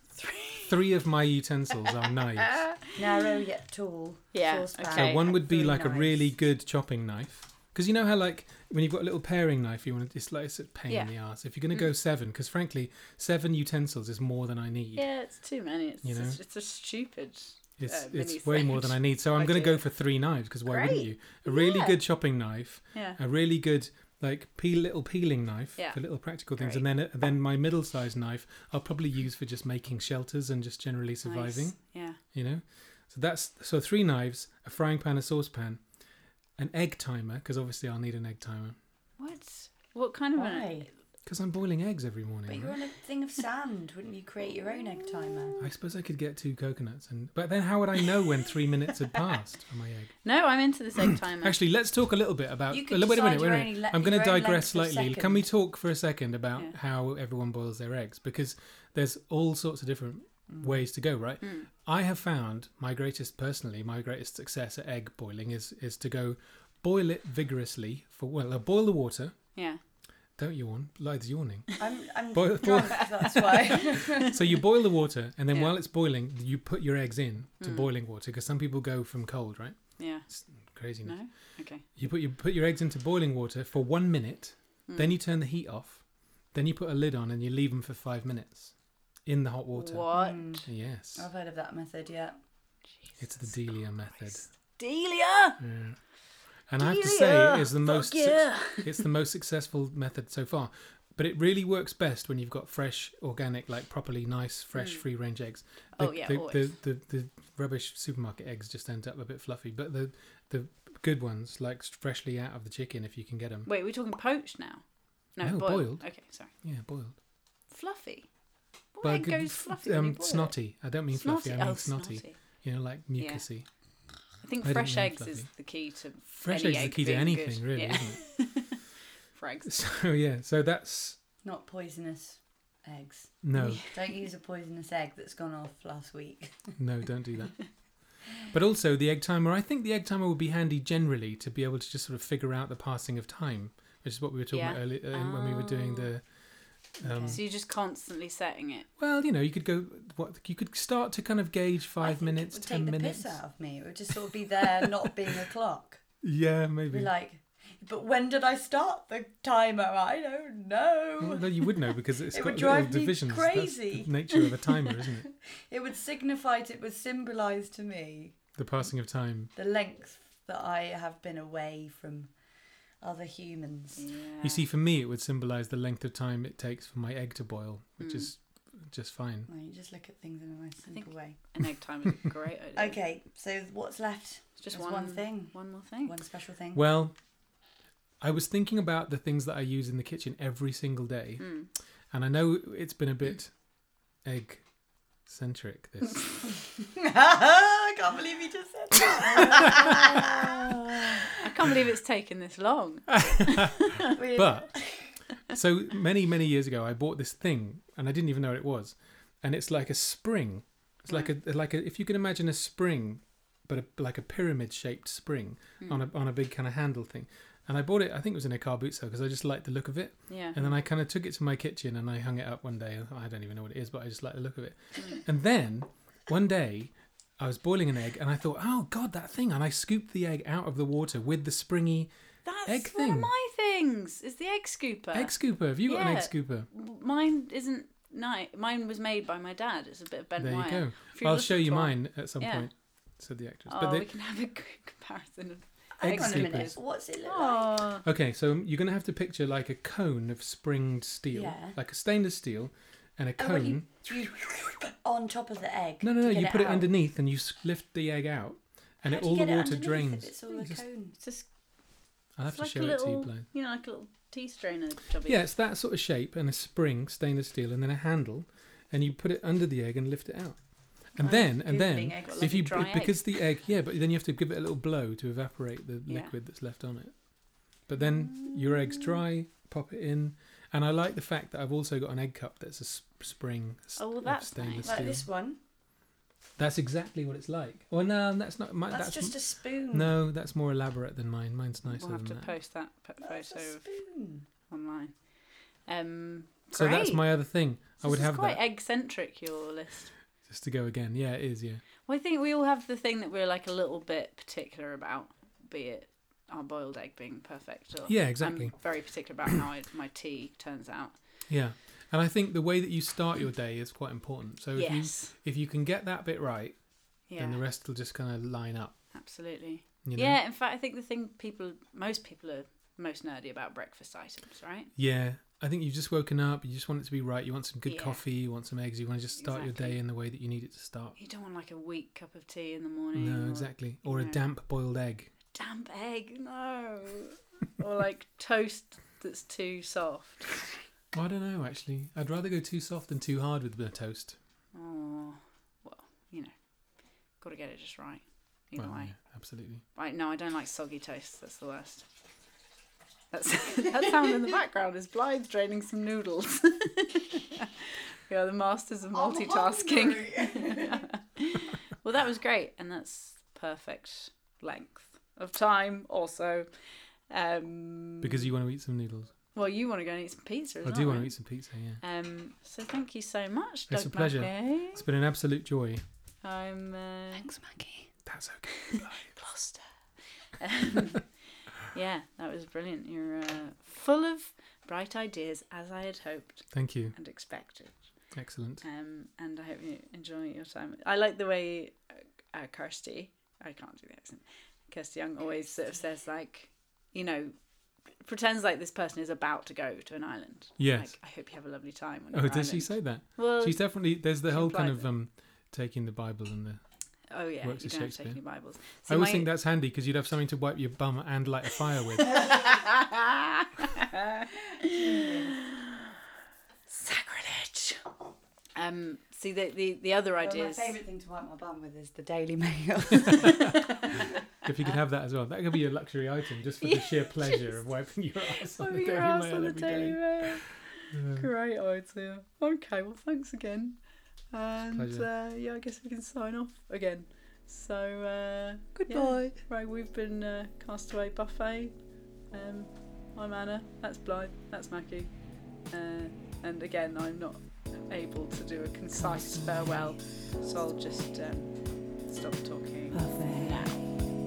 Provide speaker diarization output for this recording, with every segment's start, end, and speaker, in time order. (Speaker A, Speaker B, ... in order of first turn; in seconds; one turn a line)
Speaker A: 0.2-0.8
Speaker B: 0.7-2.6
Speaker A: 2.4-2.8
Speaker C: 3.0-6.2
Speaker A: 4.3-5.3
Speaker B: 4.9-15.1
Speaker A: 15.0-19.8
Speaker B: 16.0-16.4
Speaker B: 17.8-31.8
Speaker A: 20.7-22.0
Speaker A: 22.9-23.2
Speaker A: 26.6-26.9
Speaker A: 31.2-32.2
Speaker B: 32.3-35.8
Speaker B: 36.6-38.8
Speaker A: 39.2-40.9
Speaker C: 40.4-40.9
Speaker B: 41.3-42.8
Speaker C: 42.5-45.6
Speaker B: 45.6-50.1
Speaker A: 50.2-51.6
Speaker B: 51.0-69.4
Speaker C: 52.7-55.5
Speaker C: 60.5-60.8
Speaker A: 61.4-61.7
Speaker A: 69.5-69.8
Speaker B: 70.4-71.7
Speaker C: 71.8-74.3
Speaker B: 72.3-81.2
Speaker A: 77.6-77.9
Speaker A: 80.0-80.3
Speaker A: 81.0-81.8
Speaker B: 82.0-88.7
Speaker A: 84.9-85.1
Speaker B: 89.3-90.1
Speaker A: 89.7-90.7
Speaker C: 90.1-92.4
Speaker B: 90.7-91.3
Speaker A: 93.1-95.6
Speaker B: 93.2-94.5
Speaker B: 95.6-96.0
Speaker B: 96.7-113.7
Speaker A: 96.8-99.0
Speaker A: 104.8-105.0
Speaker A: 106.0-106.7
Speaker A: 113.7-114.8
Speaker A: 115.3-116.5
Speaker B: 115.4-116.1
Speaker B: 116.6-117.2
Speaker A: 117.7-118.3
Speaker A: 119.0-120.6
Speaker B: 119.0-123.7
Speaker A: 121.1-122.4
Speaker A: 123.2-123.5
Speaker A: 124.4-128.8
Speaker B: 124.6-125.5
Speaker B: 126.3-128.2
Speaker A: 129.3-129.7
Speaker B: 129.7-131.2
Speaker C: 131.4-136.7
Speaker B: 133.4-133.8
Speaker A: 133.6-133.9
Speaker B: 136.8-137.7
Speaker B: 138.3-146.2
Speaker A: 144.5-146.1
Speaker B: 147.0-147.4
Speaker C: 147.0-147.4
Speaker A: 147.3-148.9
Speaker B: 149.0-153.4
Speaker C: 152.0-156.0
Speaker B: 156.2-157.1
Speaker C: 156.9-161.7
Speaker B: 161.2-165.3
Speaker C: 162.3-164.1
Speaker C: 165.3-168.3
Speaker B: 168.6-169.5
Speaker C: 169.6-172.3
Speaker C: 173.0-174.0
Speaker A: 174.0-174.7
Speaker B: 174.4-179.5
Speaker A: 178.0-178.3
Speaker C: 179.5-181.4
Speaker A: 180.9-183.0
Speaker C: 182.8-186.8
Speaker A: 184.6-186.2
Speaker B: 186.7-187.2
Speaker B: 188.2-191.4
Speaker A: 191.4-191.7
Speaker B: 192.1-193.5
Speaker B: 194.2-194.6
Speaker B: 195.3-196.4
Speaker C: 196.4-201.2
Speaker B: 199.6-200.0
Speaker A: 201.4-204.1
Speaker B: 203.3-204.8
Speaker C: 204.2-204.9
Speaker B: 205.5-232.1
Speaker A: 220.3-220.7
Speaker A: 224.9-225.2
Speaker A: 232.4-235.3
Speaker B: 232.7-233.3
Speaker B: 235.1-236.7
Speaker A: 235.9-242.7
Speaker B: 240.4-244.1
Speaker A: 243.7-246.7
Speaker C: 246.0-247.9
Speaker B: 246.0-246.8
Speaker A: 247.2-248.0
Speaker B: 248.0-254.8
Speaker C: 251.3-251.8
Speaker C: 253.4-256.9
Speaker B: 256.0-260.8
Speaker C: 259.1-261.2
Speaker A: 261.2-261.5
Speaker B: 262.4-263.4
Speaker A: 262.4-265.4
Speaker B: 265.2-277.1
Speaker C: 271.2-272.9
Speaker A: 272.2-273.3
Speaker A: 276.1-276.3
Speaker B: 277.9-285.3
Speaker A: 278.0-279.2
Speaker A: 284.0-285.0
Speaker C: 284.8-285.6
Speaker B: 286.6-292.6
Speaker C: 288.9-290.1
Speaker A: 291.8-293.8
Speaker C: 293.2-294.4
Speaker A: 294.7-295.1
Speaker A: 295.9-297.3
Speaker B: 296.7-298.6
Speaker A: 298.0-300.1
Speaker B: 300.4-301.8
Speaker A: 302.1-311.2
Speaker B: 308.1-308.9
Speaker B: 311.5-316.8
Speaker A: 314.8-315.3
Speaker A: 317.3-317.6
Speaker B: 317.3-318.9
Speaker A: 319.1-324.9
Speaker B: 320.1-320.4
Speaker B: 325.0-331.2
Speaker A: 327.9-328.2
Speaker A: 329.4-330.0
Speaker A: 331.2-334.4
Speaker B: 333.1-335.3
Speaker A: 335.5-340.5
Speaker B: 341.1-344.4
Speaker A: 344.7-346.5
Speaker A: 347.4-349.2
Speaker B: 348.8-349.8
Speaker A: 349.9-352.1
Speaker A: 353.3-366.7
Speaker C: 359.1-361.0
Speaker A: 367.3-368.5
Speaker B: 368.2-369.3
Speaker A: 369.5-371.3
Speaker B: 370.8-372.0
Speaker A: 372.0-375.1
Speaker B: 373.9-376.0
Speaker A: 376.4-377.5
Speaker C: 377.4-378.1
Speaker B: 378.3-379.3
Speaker A: 378.8-379.8
Speaker A: 380.6-381.3
Speaker A: 381.8-388.0
Speaker B: 386.7-387.1
Speaker B: 388.3-388.8
Speaker A: 388.8-397.5
Speaker A: 398.2-403.8
Speaker B: 400.8-401.2
Speaker B: 402.3-406.8
Speaker A: 404.4-405.1
Speaker A: 407.3-409.5
Speaker B: 407.6-412.5
Speaker A: 412.2-414.9
Speaker C: 414.9-415.6
Speaker A: 416.9-418.0
Speaker A: 418.8-421.0
Speaker C: 420.4-423.6
Speaker B: 424.6-430.4
Speaker A: 426.8-427.9
Speaker A: 428.6-434.0
Speaker B: 431.1-431.5
Speaker A: 434.5-441.9
Speaker B: 434.9-435.3
Speaker C: 439.0-439.5
Speaker A: 442.5-445.3
Speaker A: 445.9-451.7
Speaker A: 452.3-454.0
Speaker C: 453.2-453.7